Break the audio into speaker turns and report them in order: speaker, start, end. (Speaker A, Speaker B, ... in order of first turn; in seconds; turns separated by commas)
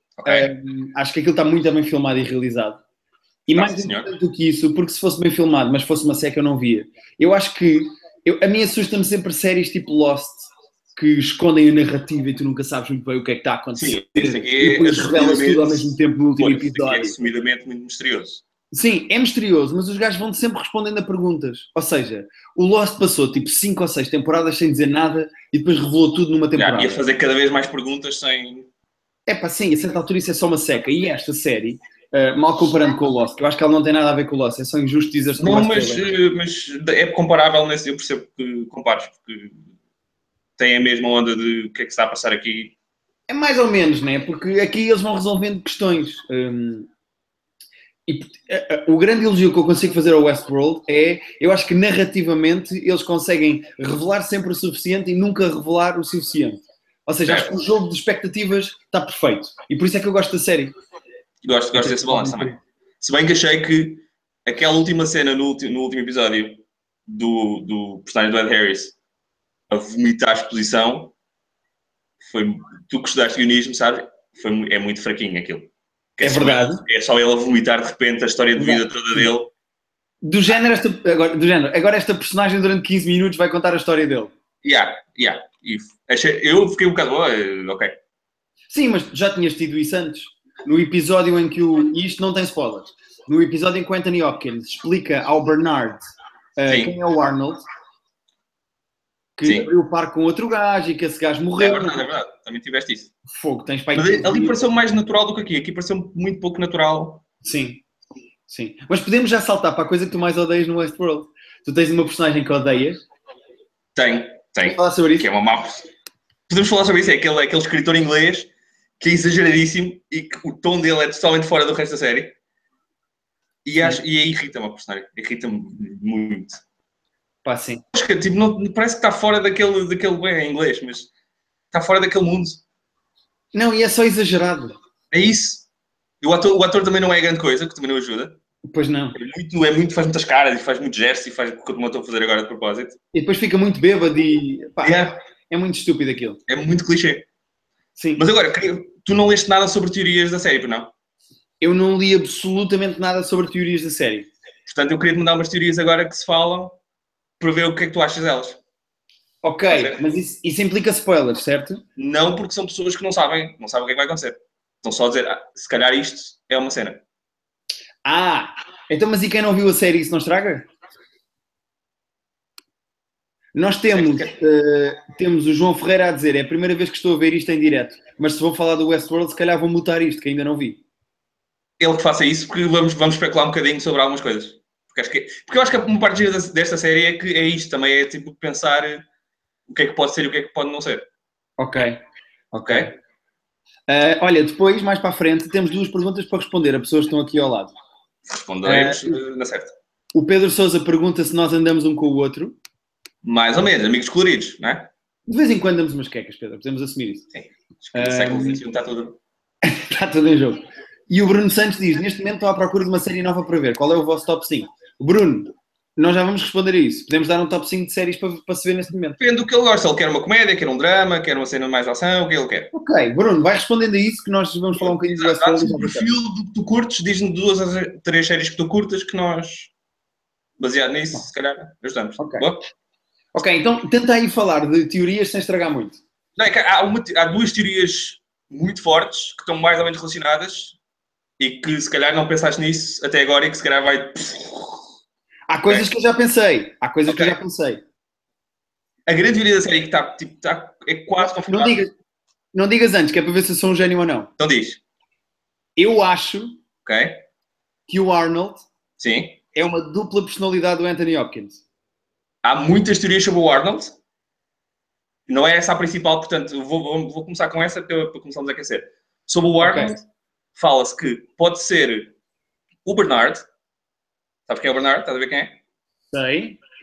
Speaker A: 0.2-0.5, Speaker B: 0.2-2.8, Speaker B: 3.5-17.2, Speaker A: 3.5-4.1, Speaker A: 13.8-18.4, Speaker B: 18.7-27.0, Speaker A: 26.6-28.7, Speaker B: 29.3-36.1, Speaker A: 35.4-39.6, Speaker A: 40.6-42.8, Speaker B: 43.3-46.9, Speaker B: 48.1-60.7, Speaker A: 57.3-57.6, Speaker A: 61.4-69.0, Speaker B: 61.8-62.6, Speaker A: 69.7-71.1, Speaker A: 72.2-79.5, Speaker B: 76.2-76.8, Speaker B: 78.6-79.2, Speaker B: 80.2-84.3, Speaker A: 84.6-88.0, Speaker B: 88.7-96.0, Speaker B: 96.6-97.6, Speaker A: 96.7-96.9, Speaker B: 99.4-102.0, Speaker A: 99.4-99.7, Speaker A: 101.6-103.1, Speaker B: 103.3-104.6, Speaker A: 103.9-107.2, Speaker B: 107.4-107.8, Speaker B: 108.5-113.0, Speaker A: 114.0-115.9, Speaker B: 114.6-115.3, Speaker A: 116.5-122.3, Speaker A: 123.7-126.6, Speaker B: 127.4-127.8, Speaker A: 127.9-131.1, Speaker A: 131.7-132.6, Speaker B: 133.5-134.7, Speaker A: 135.1-135.7, Speaker A: 136.2-138.4, Speaker B: 138.7-139.2, Speaker A: 139.1-143.0, Speaker B: 143.1-146.4, Speaker A: 144.8-145.2, Speaker A: 146.5-147.3, Speaker B: 148.0-148.2, Speaker A: 148.2-150.9, Speaker B: 151.6-154.3, Speaker A: 154.7-156.8, Speaker A: 157.4-158.6, Speaker B: 159.4-161.8, Speaker A: 159.7-160.0, Speaker A: 162.0-167.0, Speaker B: 168.1-170.7, Speaker B: 173.5-180.8, Speaker A: 173.9-174.3, Speaker A: 181.8-189.0, Speaker A: 189.7-191.1, Speaker B: 191.6-192.0, Speaker B: 192.5-192.9, Speaker A: 192.7-192.9, Speaker B: 193.9-197.7, Speaker A: 198.3-199.7, Speaker B: 198.7-199.2, Speaker B: 200.1-202.6, Speaker A: 203.2-204.9, Speaker B: 205.3-207.3, Speaker A: 207.3-209.2, Speaker B: 207.9-208.6, Speaker B: 209.6-219.2, Speaker A: 219.2-222.7, Speaker B: 222.7-226.1, Speaker A: 224.8-229.7, Speaker A: 230.6-232.7, Speaker B: 232.2-232.5, Speaker B: 233.3-236.0, Speaker A: 236.4-240.8, Speaker A: 241.4-244.8, Speaker B: 245.5-247.8, Speaker A: 247.1-247.3, Speaker A: 249.1-251.8, Speaker B: 251.4-251.9, Speaker B: 252.5-254.3, Speaker A: 254.4-254.8, Speaker B: 255.8-256.6, Speaker A: 256.9-257.2, Speaker B: 257.9-258.6, Speaker A: 259.0-259.4, Speaker B: 259.6-261.6, Speaker A: 262.4-264.0, Speaker A: 265.3-270.1, Speaker B: 269.6-269.9, Speaker A: 270.6-272.1, Speaker A: 272.9-273.4, Speaker A: 274.5-275.5, Speaker B: 276.1-276.6